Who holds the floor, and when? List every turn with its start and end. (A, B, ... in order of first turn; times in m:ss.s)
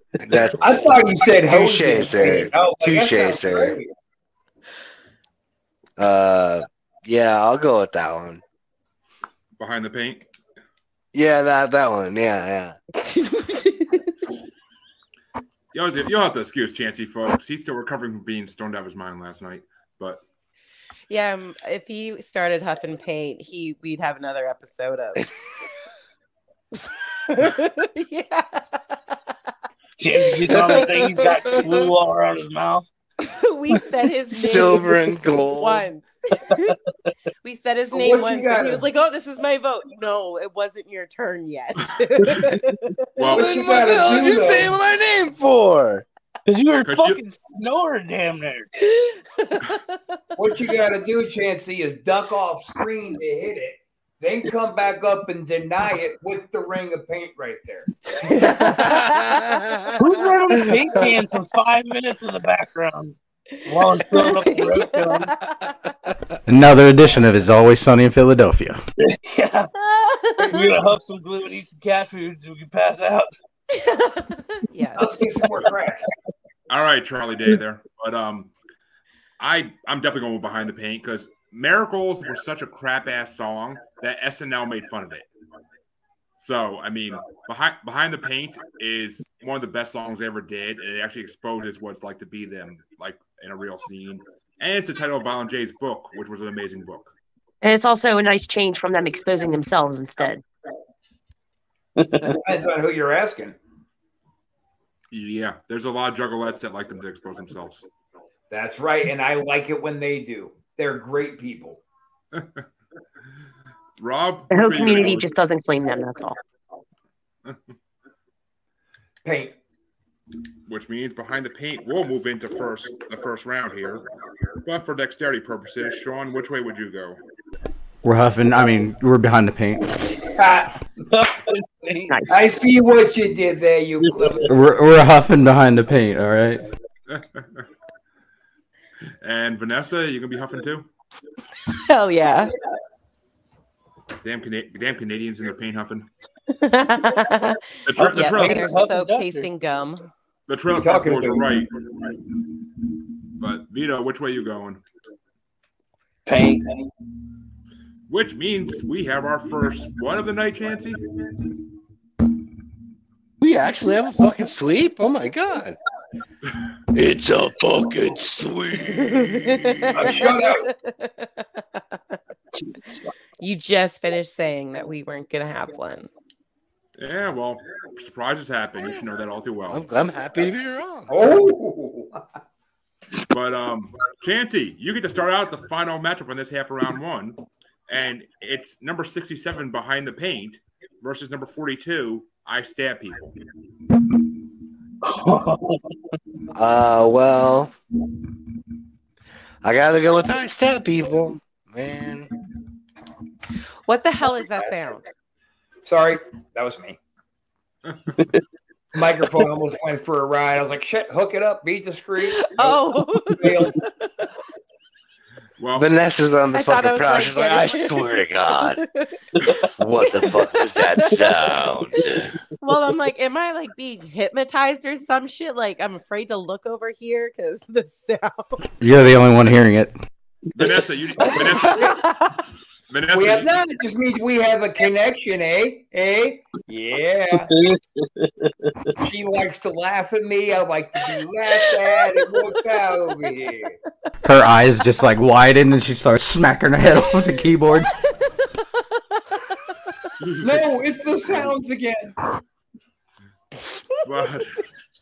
0:00.2-0:03.8 A
0:00.6-0:03.9 B
0:06.0-0:08.4 A
0:09.6-0:10.2 C
0:11.1-0:12.7 A
0:13.1-0:14.1 D
0:15.7-0:20.2 C
0:21.1-0:25.3 D
0:27.3-0:28.8 D
0:30.0-0:32.8 E
0:33.2-0:36.7 D
0:34.3-0:35.9 A
0:37.4-0:42.9 D
0:37.9-0:38.8 B
0:43.2-0:43.5 C
0:43.2-0:44.7 B
0:43.3-0:46.0 A
0:46.5-0:48.7 E
0:46.8-0:47.2 C
0:48.8-0:49.8 D
0:50.4-0:57.9 B
0:58.2-0:59.7 D
1:00.0-1:05.3 E
1:04.1-1:05.7 D
1:06.5-1:08.8 F
1:09.0-1:09.7 E
1:09.8-1:10.7 D
1:10.4-1:13.3 E
1:13.7-1:15.0 D
1:15.0-1:16.0 B
1:16.7-1:18.5 C
1:19.4-1:25.3 C
1:26.4-1:37.1 C
1:37.6-1:40.4 G
1:42.0-1:42.2 E
1:42.2-1:43.6 B
1:45.1-1:47.8 C
1:48.5-1:51.8 B
1:52.3-1:52.6 C
1:54.0-1:55.3 C
1:54.5-1:56.4 G
1:59.2-1:59.5 B
2:00.7-2:04.0 C
2:04.6-2:07.2 C
2:08.0-2:10.0 F
2:10.2-2:10.8 B
2:11.1-2:12.2 E
2:12.1-2:12.4 G
2:12.3-2:14.5 B
2:14.0-2:14.4 E
2:14.5-2:16.6 F
2:17.1-2:17.6 C
2:19.2-2:20.9 C
2:21.7-2:22.5 D
2:24.2-2:26.1 C
2:26.5-2:30.1 D
2:27.8-2:28.7 C
2:28.0-2:29.5 E
2:30.5-2:31.7 C
2:30.7-2:31.5 B
2:33.4-2:34.8 C
2:36.2-2:36.8 E
2:38.1-2:41.0 C
2:43.4-2:45.8 A
2:46.9-2:50.1 A
2:49.0-2:51.4 D
2:50.0-2:50.7 B
2:52.5-2:53.1 E
2:53.4-2:56.1 D
2:57.0-2:59.8 C
2:59.7-3:01.1 A
3:01.1-3:02.2 B
3:03.3-3:13.4 C
3:15.0-3:15.8 E
3:16.5-3:17.7 A
3:19.6-3:22.3 A
3:23.9-3:25.0 D
3:25.8-3:27.0 B
3:28.9-3:33.8 B
3:32.3-3:33.9 D
3:35.6-3:35.9 C
3:35.8-3:38.8 A
3:36.5-3:39.2 D
3:39.8-3:42.3 A
3:40.0-3:41.3 D
3:42.6-3:48.6 D
3:48.8-3:49.9 F
3:50.5-3:52.0 C
3:52.9-3:53.5 C
3:53.1-3:57.5 B
3:57.4-3:58.9 E
3:59.0-4:03.8 B
4:04.2-4:07.9 F
4:10.2-4:10.6 C
4:10.4-4:12.2 B
4:14.0-4:14.6 C